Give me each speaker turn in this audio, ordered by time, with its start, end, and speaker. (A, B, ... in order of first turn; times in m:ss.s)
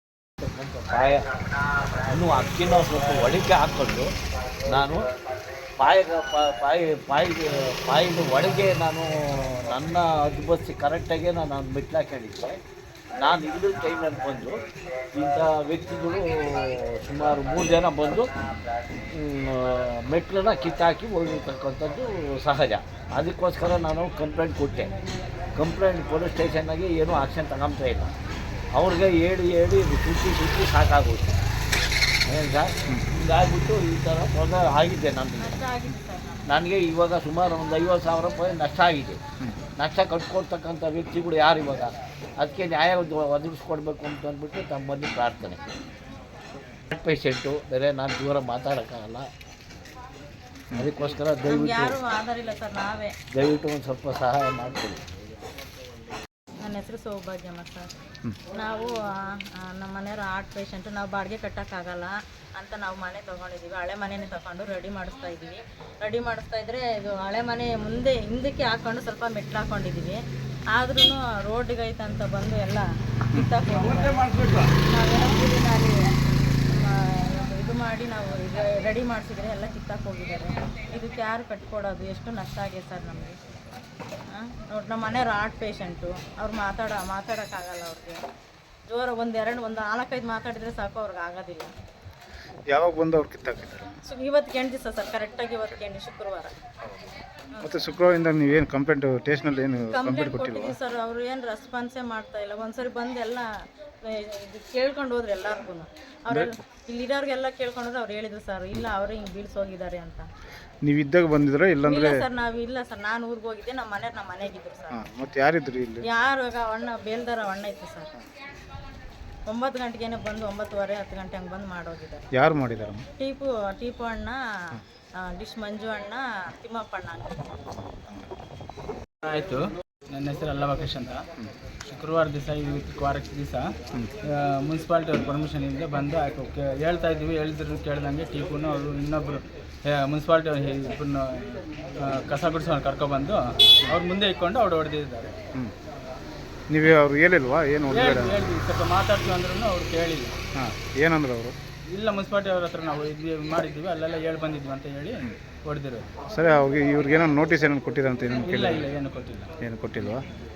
0:00.4-0:01.2 A
0:02.0-0:04.1 A
0:04.7-0:05.0 A
0:05.8-0:12.6 A
0:13.2-0:14.6 A
0:15.2-0:18.3 A
0:19.1-0:24.9 A
0:25.6-0:28.2 A
0:28.7-0:31.4 A
0:32.2-0:35.6 A
0:35.4-0:36.4 B
0:36.5-0:39.2 A
0:39.8-0:45.8 A
0:46.9-0:49.3 A
0:50.8-0:52.0 A
0:51.5-0:53.1 B
0:53.3-0:55.0 A
0:56.6-0:57.9 B
0:58.5-1:10.2 B
1:10.8-1:23.4 B
1:24.3-1:28.2 B
1:28.9-1:31.7 B
1:32.7-1:34.0 C
1:34.1-1:36.5 B
1:37.6-1:40.8 C
1:39.9-1:43.5 B
1:44.1-1:50.3 B
1:50.8-1:52.2 C
1:51.9-1:55.0 B
1:54.9-1:56.1 C
1:56.0-1:58.1 B
1:59.5-2:02.3 B
2:02.4-2:03.1 C
2:03.2-2:04.4 B
2:05.2-2:07.4 B
2:07.8-2:08.3 C
2:09.2-2:11.3 D
2:11.8-2:13.7 D
2:14.3-2:25.3 D
2:26.7-2:28.5 C
2:27.9-2:30.4 D
2:30.6-2:31.6 C
2:31.9-2:36.1 D
2:36.3-2:38.9 C
2:38.4-2:39.5 D
2:39.6-2:40.2 C